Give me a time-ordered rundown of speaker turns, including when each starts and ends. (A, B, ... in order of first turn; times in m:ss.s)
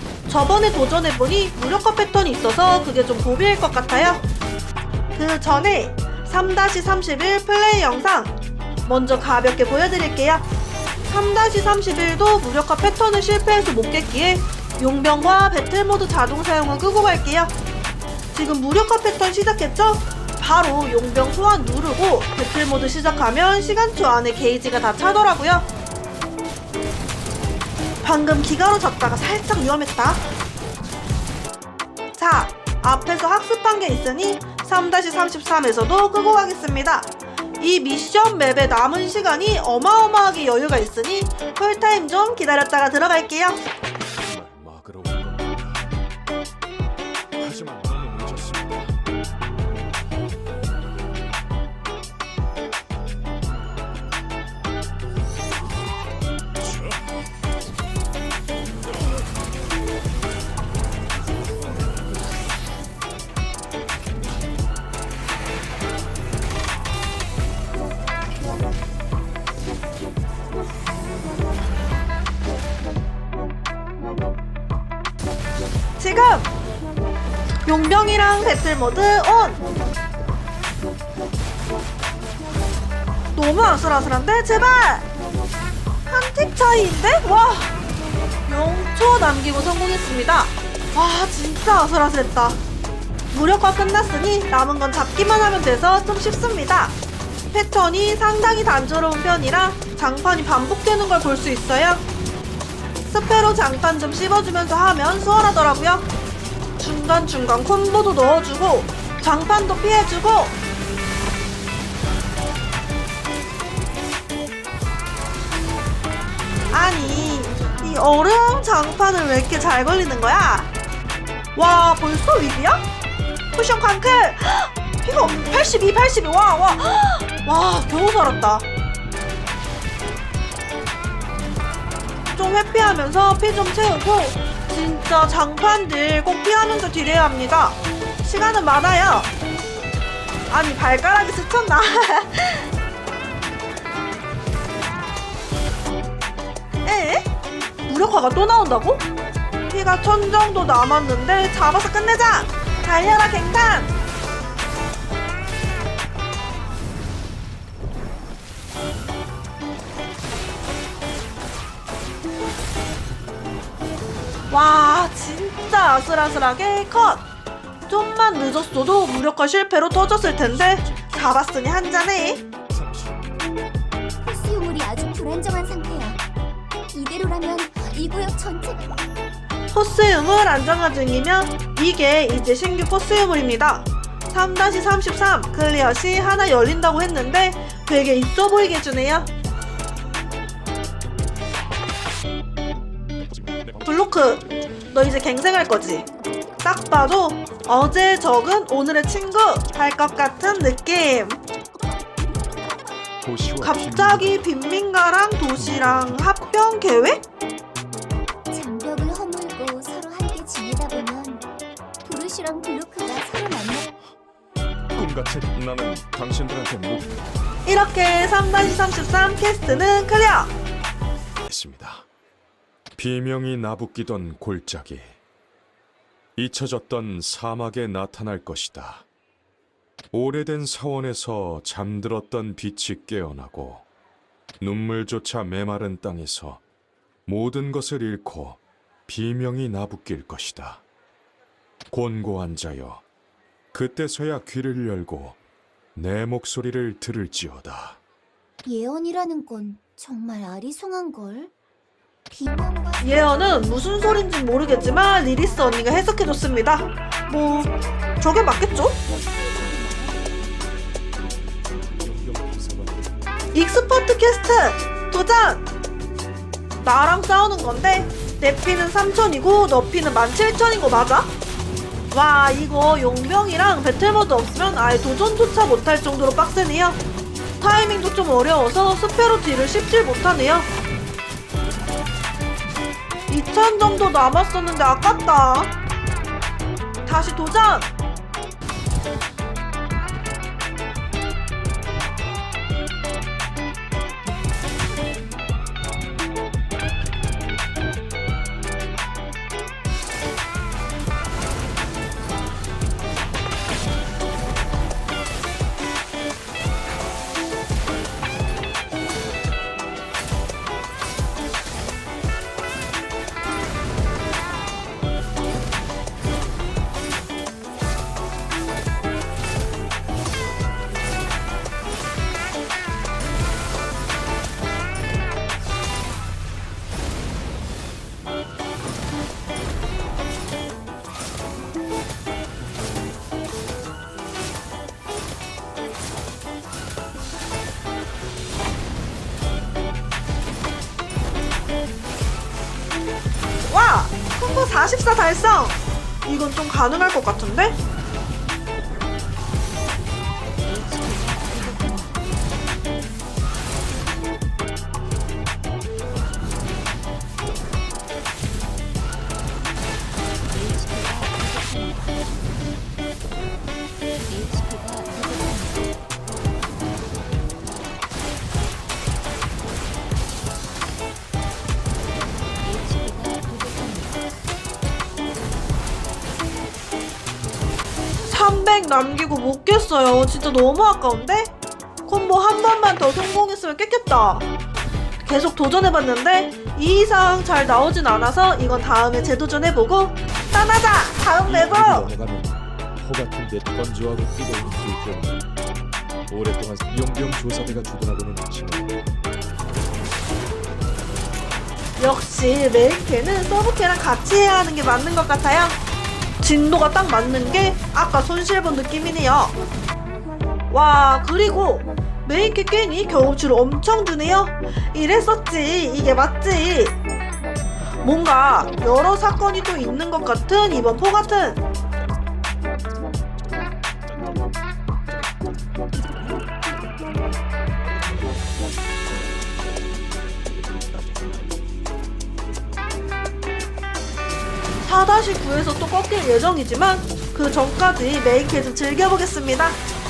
0:00.3-0:04.2 A
0:05.1-0:08.3 A
0:08.8-0:10.4 A
0:11.1-0:17.5 A
0:18.3-0:25.7 A
0:28.0-0:30.2 A
0:32.2-0:43.7 A
0:44.2-0:45.9 B
0:47.4-0:49.0 B
1:16.0-1:16.5 A
1:17.6-1:19.6 A
1:23.3-1:25.1 A
1:26.1-1:27.8 A
1:28.5-1:32.6 A
1:33.3-1:37.0 A
1:37.5-1:42.0 A
1:43.0-1:46.1 A
1:46.8-1:50.6 A
1:56.7-2:00.7 A
2:01.5-2:02.9 A
2:03.5-2:08.6 A
2:12.3-2:19.3 A
2:20.5-2:22.7 A
2:26.8-2:27.3 A
2:27.9-2:29.0 A
2:29.7-2:33.9 A
2:44.5-2:47.3 A
2:47.9-2:52.4 A
2:52.7-2:53.2 B
2:54.2-2:56.2 C
2:56.9-2:59.0 C
2:59.7-3:09.3 A
3:13.8-3:16.1 A
3:16.6-3:21.4 A
3:23.2-3:24.5 B
3:23.6-3:27.2 A
3:25.5-3:26.5 B
3:28.5-3:31.4 C
3:32.0-3:33.9 C
3:34.9-3:37.2 B
3:37.6-3:40.5 A
3:41.5-3:42.1 B
3:43.0-3:45.2 B
3:46.4-3:49.0 B
3:50.1-3:53.8 B
3:54.6-3:56.6 B
3:57.2-4:00.8 B
4:01.9-4:03.0 B
4:03.7-4:05.4 B
4:06.0-4:08.0 B
4:08.6-4:11.5 C
4:12.3-4:16.0 C
4:13.0-4:17.7 A
4:17.3-4:20.3 C
4:18.2-4:19.0 A
4:22.0-4:23.1 D
4:23.5-4:25.7 A
4:26.8-4:31.3 A
4:32.1-4:37.0 A
4:37.6-4:40.7 A
4:43.3-4:45.7 A
4:47.0-4:47.9 A
5:43.6-5:47.7 A
5:50.6-5:52.3 C
6:00.5-6:02.4 C
6:04.3-6:05.9 C
6:12.6-6:14.3 C
6:18.2-6:21.5 A
6:22.0-6:24.5 A
6:25.2-6:32.1 A
6:31.5-6:35.4 D
6:36.3-6:38.9 D
6:36.6-6:37.5 B
6:38.2-6:38.6 B
6:42.0-6:45.8 A
6:46.4-6:49.5 A
6:50.7-6:57.0 A
6:58.0-7:01.6 A
7:14.8-7:19.8 A